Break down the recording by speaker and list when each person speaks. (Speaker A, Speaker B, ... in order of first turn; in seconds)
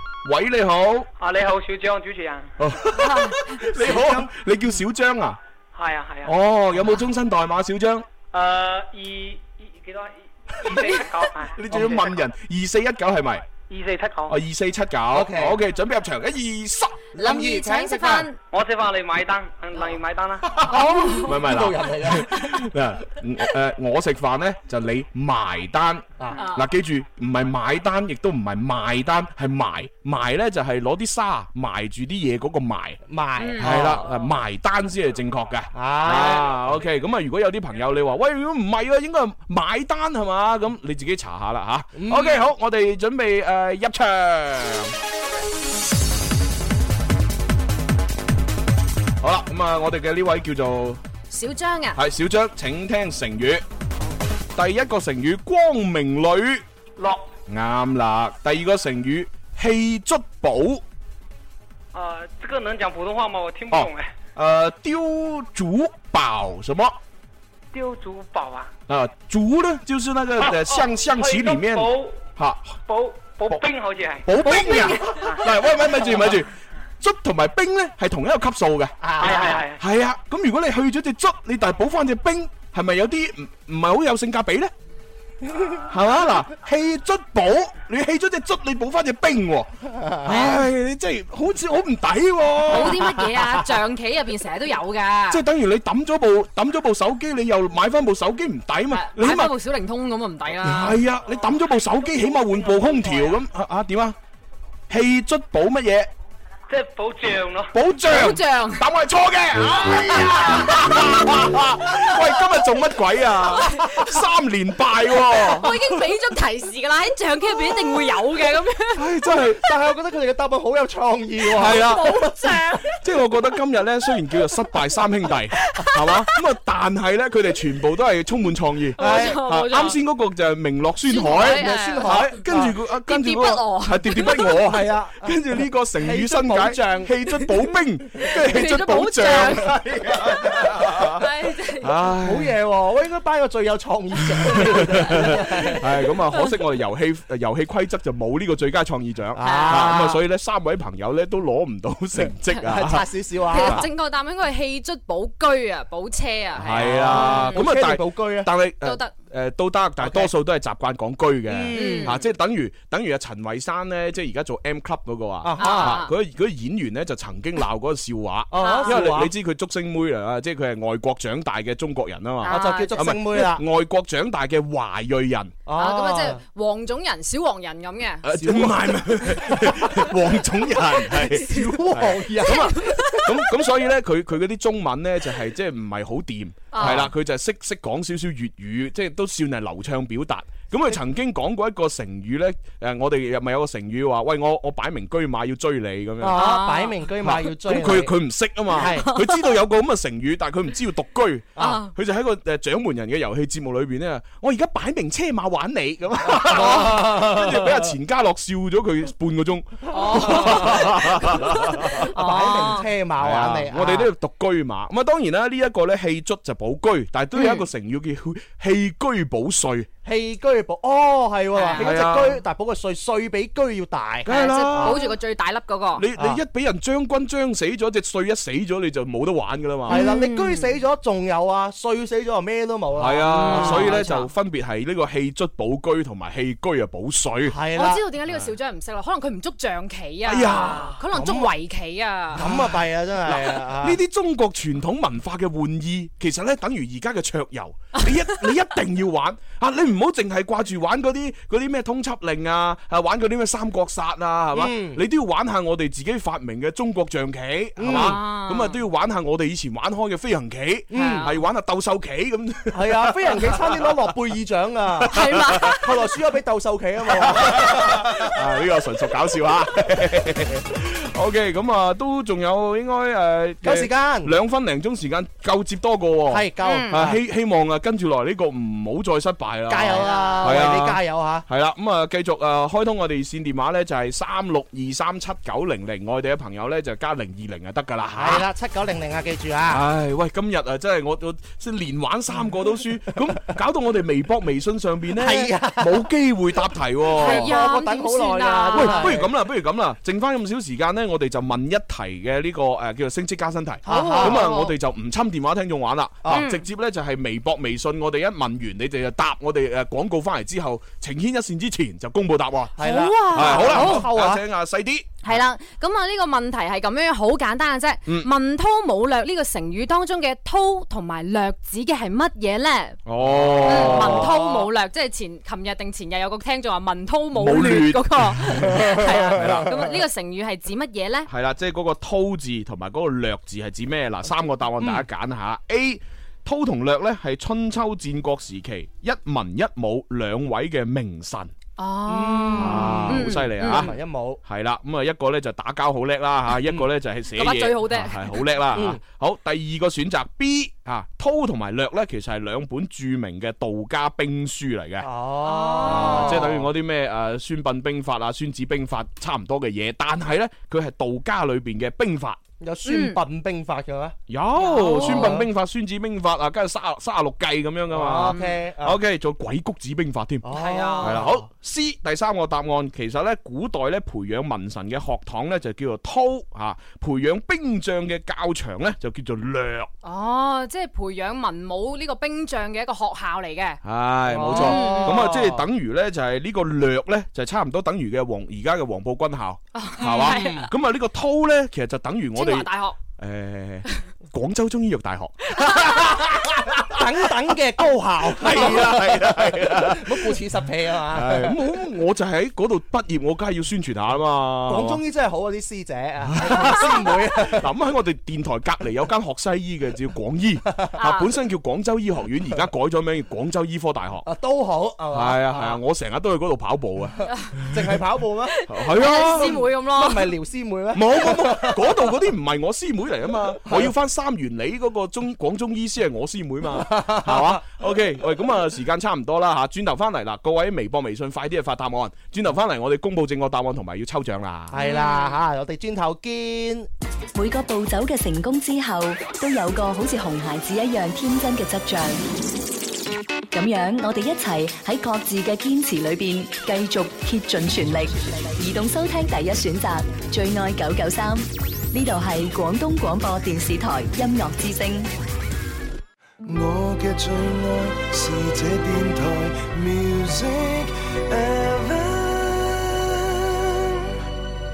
Speaker A: 0.2-1.1, 2.6-5.4, 6.2-8.1, 10.7-11.0, 11.5-13.5, 14.3-17.0, 21.2-33.0, 33.6-44.9, 49.2-51.0, 52.0-53.6, 54.6-56.6, 57.5-60.8, 63.7-67.0, 68.9-72.8, 74.2-84.7, 85.8-89.7, 90.2-93.4, 95.3-99.6, 100.5-104.2, 104.9-106.1, 107.7-115.8, 119.0-119.6, 121.5-122.2, 122.9-141.3, 141.8-142.5, 144.5-153.9, 156.5-175.6, 178.2-196.5, 197.2-212.1, 213.2-219.9, 221.8-222.4, 224.2-225.1, 226.0-230.1, 233.0-237.6, 240.2-240.9, 243.3-263.6, 265.1-265.8, 267.2-288.5, 289.7-297.6, 298.7-315.4, 323.1-324.4, 327.3-329.7, 331.3-341.5, 342.6-355.1, 355.8-362.4, 364.3-370.5, 371.0-379.9, 383.8-397.0, 398.2-400.4, 401.1-405.0, 406.4-414.3, 415.1-417.2, 418.7-419.6, 420.9-434.8
Speaker B: 1.2-2.5, 5.7-6.3, 8.3-12.1, 13.6-14.4, 18.5-20.6, 57.0-57.3, 61.9-64.1, 67.7-68.7, 70.5-72.3, 72.9-74.3, 79.2-79.8, 102.6-102.9, 106.7-107.7
Speaker C: 3.8-4.3, 11.7-12.0, 15.1-15.6, 17.1-18.3, 20.6-22.4, 33.1-34.1, 35.7-36.6, 42.0-42.4, 79.0-79.6, 85.5-85.8, 90.0-90.4, 119.6-122.6, 129.0-129.4, 131.2-132.7, 134.4-135.4, 136.0-137.1, 142.2-145.8, 149.3-150.2, 152.6-153.9, 156.7-158.5, 160.0-160.3, 161.5-162.2, 165.4-166.1, 168.5-169.3, 172.5-173.6, 175.7-176.4, 178.4-180.1, 181.3-183.2, 186.8-187.1, 196.2-198.1, 198.7-199.1, 201.6-201.8, 206.3-207.9, 210.0-214.1, 220.1-225.1, 229.9-234.2, 237.5-238.0, 241.0-241.5, 242.3-244.0, 254.5-255.0, 257.8-258.2, 260.9-261.3, 262.7-265.1, 265.7-268.1, 273.6-274.3, 276.3-277.2, 279.7-281.4, 288.2-289.8, 295.2-296.1, 297.1-299.3, 303.9-304.5, 312.8-314.4, 323.2-324.7, 329.0-329.2, 342.1-344.4, 348.8-349.0, 355.0-356.7, 362.6-364.2, 365.0-365.5, 367.9-369.0, 370.4-371.5, 384.3-385.6, 390.0-390.7, 396.9-401.6, 404.7-407.7, 414.2-415.8, 417.7-422.0, 426.7-427.6, 434.7-436.9
Speaker D: 17.2-18.4, 51.3-52.0, 92.7-95.3, 99.0-100.9, 108.1-108.8, 115.6-118.8, 122.2-122.5, 129.0-129.9, 131.1-132.1, 133.1-134.5, 138.5-139.6, 141.2-141.9, 149.4-149.8, 153.5-157.7, 161.7-162.2, 165.6-166.1, 168.6-169.0, 172.5-172.9, 175.8-178.2, 186.7-187.1, 196.3-196.9, 209.9-210.8, 212.2-212.9, 217.4-217.7, 224.3-226.0, 229.9-230.7, 233.4-234.2, 237.8-242.4, 257.9-258.8, 260.9-261.3, 265.1-265.8, 276.6-276.9, 280.1-280.5, 297.2-299.2, 303.9-304.8, 306.3-306.6, 312.8-314.1, 315.2-323.0, 323.7-331.3, 341.8-343.9, 347.4-348.4, 355.5-356.5, 362.9-363.2, 364.6-365.4, 368.3-368.5, 370.5-371.1, 380.0-383.8, 384.5-385.2, 389.8-390.7, 392.4-393.0, 411.0-411.3, 418.7-420.3, 434.8-435.4
Speaker E: 437.4-442.2, 443.5-455.1
Speaker F: 456.4-464.1